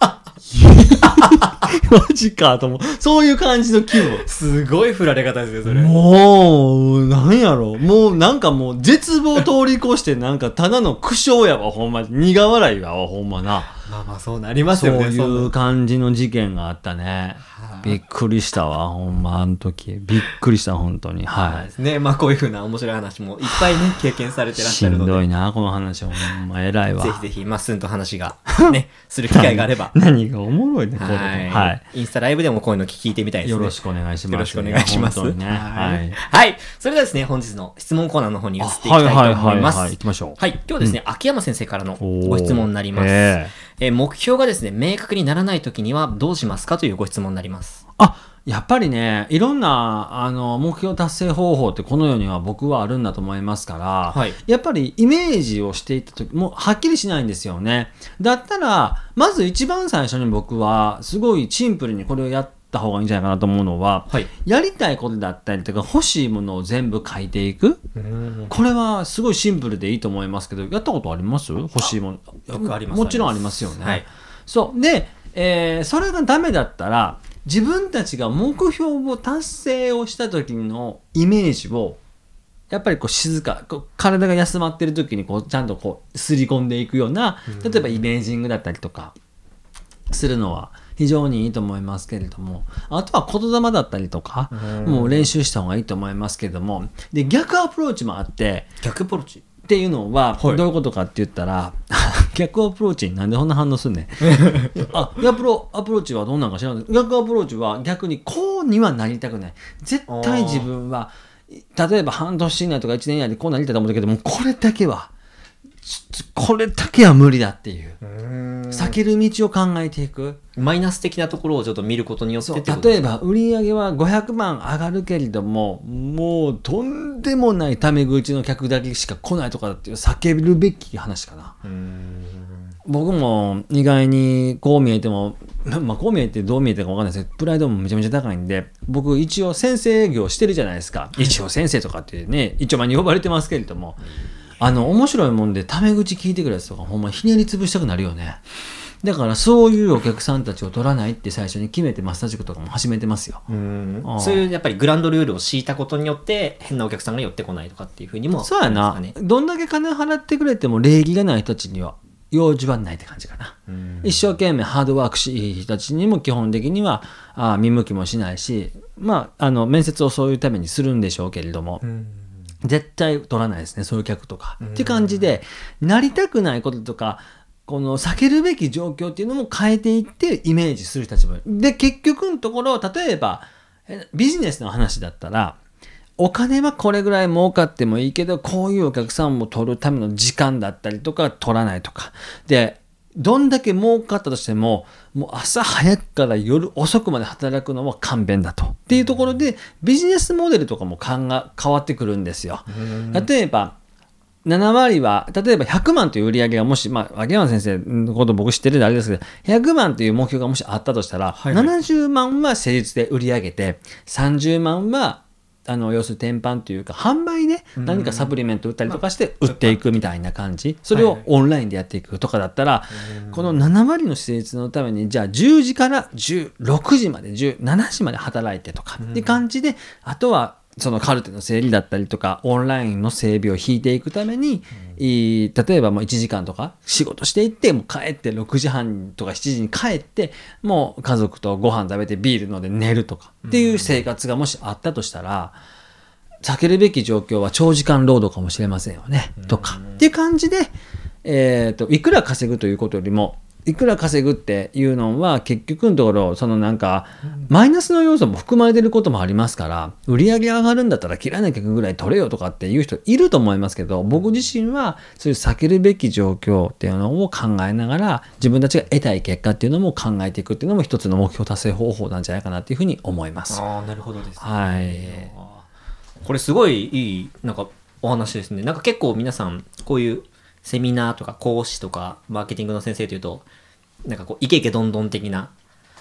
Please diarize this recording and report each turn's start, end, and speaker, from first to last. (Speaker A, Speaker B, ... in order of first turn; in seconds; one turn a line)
Speaker A: 0.5-4.2
Speaker B: 4.1-6.0
Speaker A: 5.7-13.8
Speaker B: 13.9-15.5
Speaker A: 14.7-21.7
Speaker B: 17.4-18.0
Speaker B: 21.4-25.2
Speaker A: 23.5-24.0
Speaker A: 24.6-27.2
Speaker B: 27.0-29.9
Speaker A: 29.3-31.8
Speaker B: 31.0-47.8
Speaker A: 33.4-36.2
Speaker A: 38.6-41.0
Speaker A: 42.0-43.5
Speaker A: 48.0-67.8
Speaker B: 54.1-54.4
Speaker B: 68.0-68.5
Speaker A: 68.5-82.0
Speaker B: 72.5-74.0
Speaker A: 82.7-89.2
Speaker B: 87.5-88.0
Speaker A: 90.1-98.7
Speaker B: 94.5-95.3
Speaker B: 98.8-99.4
Speaker A: 99.7-115.1
Speaker B: 104.2-104.9
Speaker B: 110.1-110.7
Speaker A: 115.8-118.0
Speaker B: 118.0-119.0
Speaker A: 118.7-120.4
Speaker B: 120.6-123.0
Speaker A: 122.5-131.6
Speaker B: 131.6-132.7
Speaker A: 132.9-144.0
Speaker A: 144.6-148.4
Speaker A: 149.0-153.4
Speaker B: 153.5-159.1
Speaker A: 154.0-154.5
Speaker A: 158.4-171.8
Speaker B: 163.7-164.3
Speaker B: 171.8-172.4
Speaker A: 172.6-185.6
Speaker B: 174.6-175.3
Speaker A: 186.2-203.8
Speaker B: 198.9-199.3
Speaker B: 202.7-203.3
Speaker A: 204.4-245.6
Speaker B: 211.3-211.7
Speaker B: 217.8-218.3
Speaker B: 218.9-220.1
Speaker B: 220.9-221.3
Speaker B: 222.9-223.6
Speaker B: 229.0-229.4
Speaker B: 243.4-244.0
Speaker A: 246.4-250.7
Speaker B: 249.4-250.0
Speaker A: 251.2-273.6
Speaker B: 273.5-275.4
Speaker A: 274.4-275.6
Speaker B: 276.2-283.5
Speaker B: 284.1-285.5